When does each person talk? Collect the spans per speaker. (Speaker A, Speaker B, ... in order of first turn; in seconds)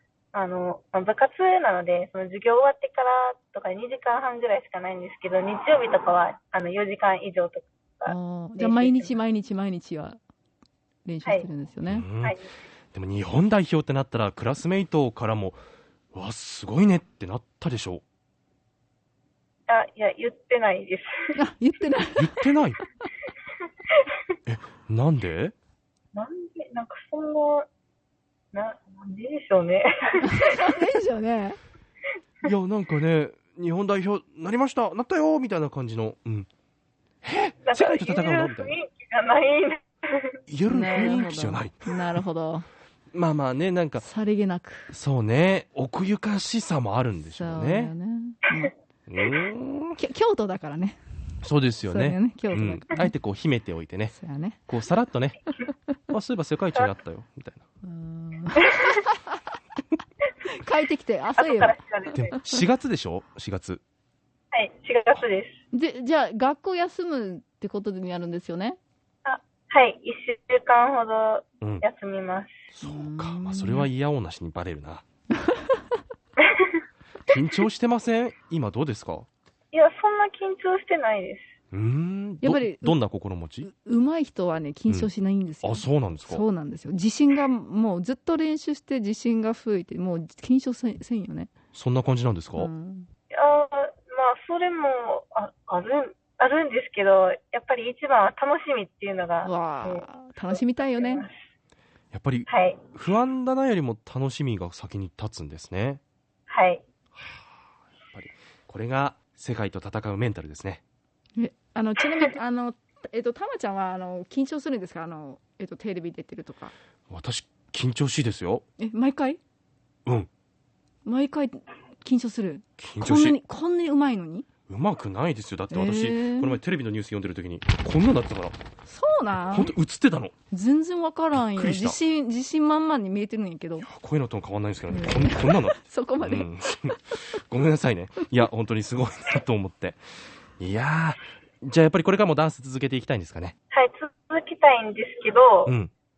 Speaker A: 0.3-9.1, 12.2-12.5, 19.7-21.3, 26.1-27.6, 28.5-30.6, 37.7-40.4, 61.4-62.4, 64.5-65.6, 69.2-72.6, 79.7-81.5, 93.3-101.4, 102.5-102.8, 106.5-106.8, 143.7-145.7
Speaker B: 8.1-10.2, 11.0-12.1, 21.4-22.5, 30.2-31.6, 40.7-42.7, 44.0-44.9, 47.4-48.7, 50.0-51.0, 51.8-53.1, 54.1-54.7, 57.8-59.4, 60.4-61.7, 65.7-68.8, 72.8-73.9, 82.4-83.0, 83.6-91.5, 92.5-93.1, 99.4-101.2, 111.4-116.7, 118.8-119.4, 121.0-124.5, 125.7-126.6, 128.8-129.7, 130.5-133.9, 134.9-137.2
Speaker C: 11.9-12.3, 12.9-15.6, 16.1-18.0, 22.2-22.8, 24.5-25.5, 32.4-36.5, 37.2-38.8, 40.5-42.0, 43.1-44.0, 44.9-47.9, 49.1-50.0, 51.4-54.1, 54.7-55.4, 56.1-57.6, 62.1-63.8, 72.7-75.0, 77.3-79.3, 81.7-83.7, 85.6-86.4, 91.7-92.7, 102.1-106.0, 108.1-110.8, 117.1-118.6, 122.8-123.4, 124.7-128.6, 129.5-130.3, 131.3-132.0, 133.8-140.0, 140.6-143.5, 145.7-145.9